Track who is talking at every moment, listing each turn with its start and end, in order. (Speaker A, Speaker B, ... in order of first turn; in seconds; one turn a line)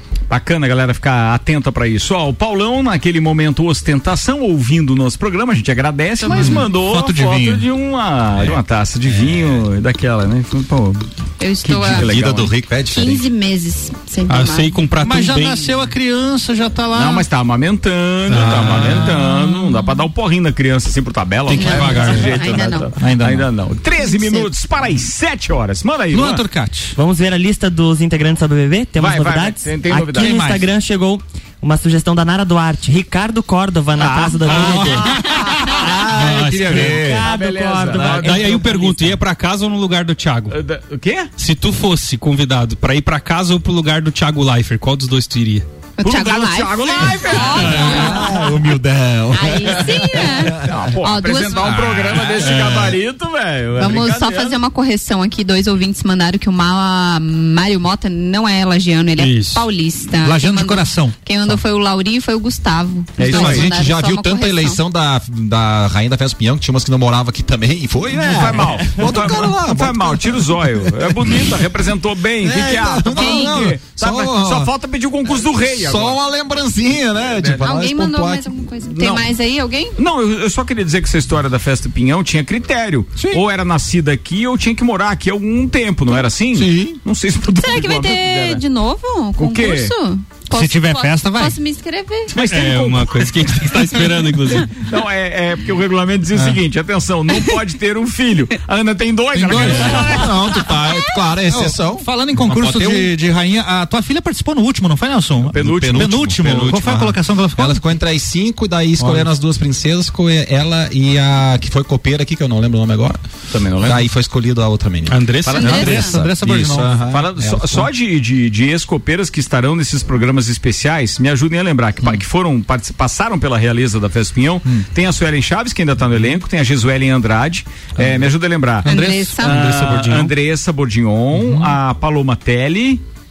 Speaker A: 0.3-11.1
Speaker B: 6.2-7.7
Speaker C: 9.1-9.6
Speaker D: 11.4-12.1
Speaker C: 11.7-13.2
Speaker A: 11.8-12.5
Speaker D: 12.8-14.8
Speaker E: 14.3-15.7
Speaker B: 15.0-17.2
Speaker A: 16.9-26.4
Speaker E: 18.3-19.1
Speaker B: 18.3-19.9
Speaker E: 21.5-22.4
Speaker D: 21.5-22.9
Speaker B: 23.0-23.5
Speaker D: 24.0-24.5
Speaker B: 26.1-26.9
Speaker F: 26.9-35.2
Speaker A: 29.0-30.4
Speaker B: 30.1-30.7
Speaker A: 34.0-38.6
Speaker B: 34.5-36.9
Speaker E: 36.1-37.2
Speaker F: 36.7-39.2
Speaker E: 38.0-40.6
Speaker A: 40.5-41.3
Speaker E: 41.4-45.6
Speaker D: 46.0-48.5
Speaker A: 46.0-48.4
Speaker B: 47.7-49.8
Speaker C: 48.6-49.8
Speaker D: 49.3-51.8
Speaker A: 50.5-54.6
Speaker E: 51.7-52.8
Speaker D: 53.8-64.8
Speaker E: 59.2-59.6
Speaker B: 60.2-61.1
Speaker A: 63.2-63.7
Speaker C: 63.2-71.5
Speaker A: 68.2-76.2
Speaker C: 72.4-74.7
Speaker D: 73.1-73.6
Speaker C: 75.7-78.5
Speaker D: 77.5-80.0
Speaker A: 78.9-79.3
Speaker A: 80.0-88.6
Speaker B: 86.5-87.0
Speaker D: 87.6-92.3
Speaker A: 89.4-89.9
Speaker B: 90.5-91.6
Speaker A: 92.3-93.3
Speaker E: 92.4-94.8
Speaker A: 94.6-100.7
Speaker B: 99.3-100.6
Speaker C: 99.4-103.2
Speaker B: 101.5-107.8
Speaker A: 105.5-106.1
Speaker C: 105.5-113.2
Speaker B: 109.0-109.3
Speaker A: 113.5-114.0
Speaker C: 113.8-117.9
Speaker E: 115.1-116.0
Speaker A: 115.4-116.1
Speaker B: 115.6-117.0
Speaker D: 115.7-116.0
Speaker A: 116.9-128.9
Speaker B: 128.8-129.3
Speaker E: 128.8-130.3
Speaker D: 128.9-129.6
Speaker A: 129.4-133.0
Speaker B: 131.3-131.8